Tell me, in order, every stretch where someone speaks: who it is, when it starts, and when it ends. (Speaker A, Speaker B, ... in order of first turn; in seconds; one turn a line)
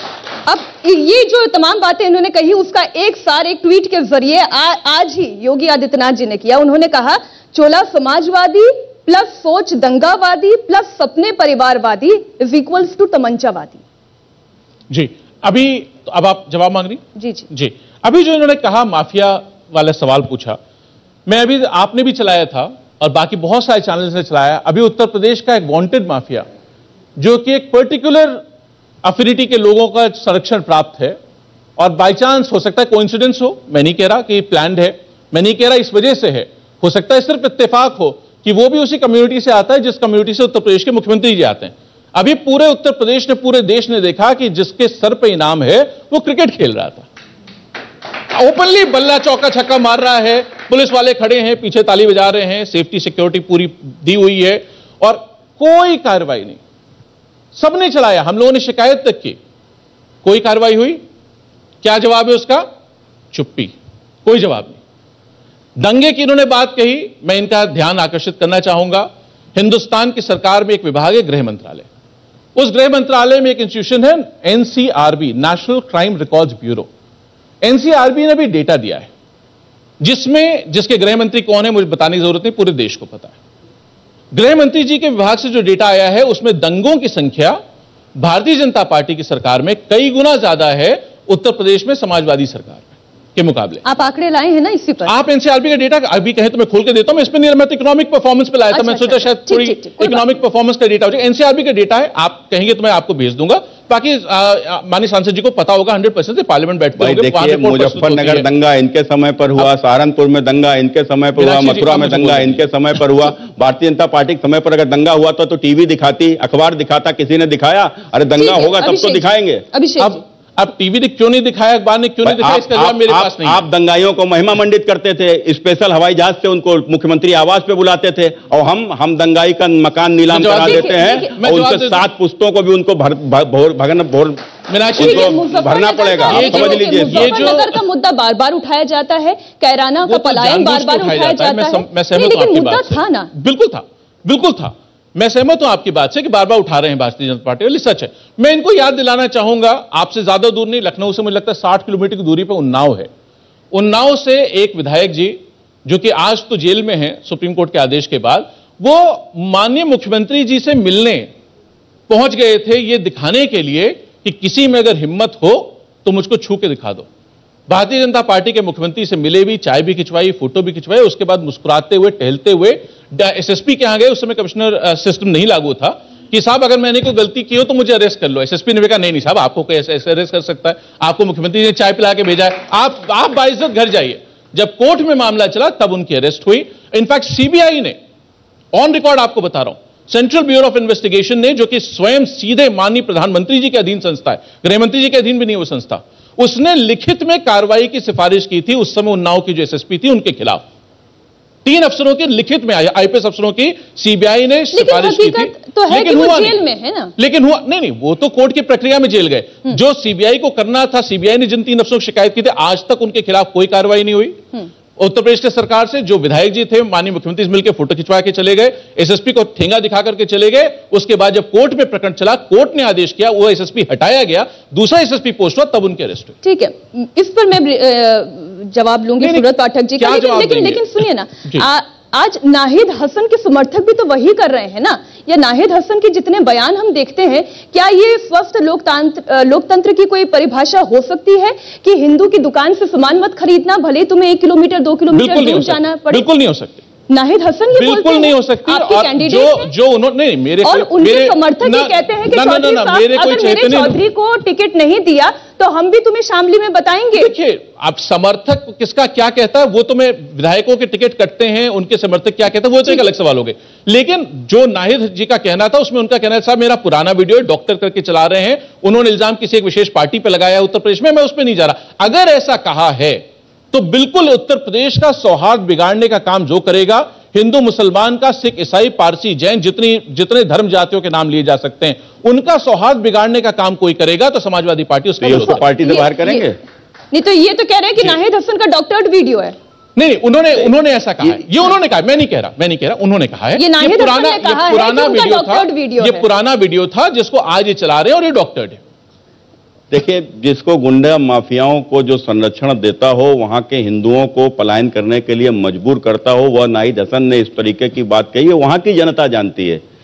Speaker A: 0.5-13.8
Speaker B: 14.9-20.6
Speaker A: 17.2-17.5
Speaker B: 21.3-26.5
Speaker B: 27.2-28.4
Speaker B: 29.0-31.2
Speaker B: 31.8-47.1
Speaker B: 48.3-56.6
Speaker B: 57.5-59.4
Speaker B: 60.2-61.0
Speaker B: 61.8-62.7
Speaker B: 63.3-63.7
Speaker B: 64.3-64.8
Speaker B: 65.8-71.9
Speaker B: 72.6-76.9
Speaker B: 77.6-79.1
Speaker B: 80.0-83.4
Speaker B: 84.3-87.6
Speaker B: 88.2-93.8
Speaker A: 93.8-95.1
Speaker B: 95.1-108.5
Speaker A: 98.7-100.2
Speaker C: 107.0-119.6
Speaker B: 111.4-112.6
Speaker A: 118.4-120.2
Speaker B: 120.0-123.6
Speaker C: 122.2-134.4
Speaker B: 130.3-132.1
Speaker A: 130.6-131.3
Speaker B: 134.7-135.4
Speaker C: 135.0-137.5
Speaker A: 135.0-143.3
Speaker B: 136.3-137.8
Speaker B: 140.1-153.1
Speaker B: 153.7-161.3
Speaker B: 162.1-167.1
Speaker B: 167.7-188.0
Speaker B: 188.7-200.6
Speaker B: 201.6-206.6
Speaker A: 204.7-207.1
Speaker B: 207.2-214.4
Speaker B: 215.0-226.3
Speaker A: 226.4-246.3
Speaker B: 229.2-231.7
Speaker B: 245.1-246.8
Speaker A: 247.1-249.7
Speaker B: 247.8-254.0
Speaker A: 250.6-257.3
Speaker B: 257.1-285.7
Speaker C: 285.2-286.6
Speaker A: 285.6-286.5
Speaker A: 287.1-289.6
Speaker B: 290.0-298.8
Speaker A: 293.6-296.2
Speaker C: 299.9-309.8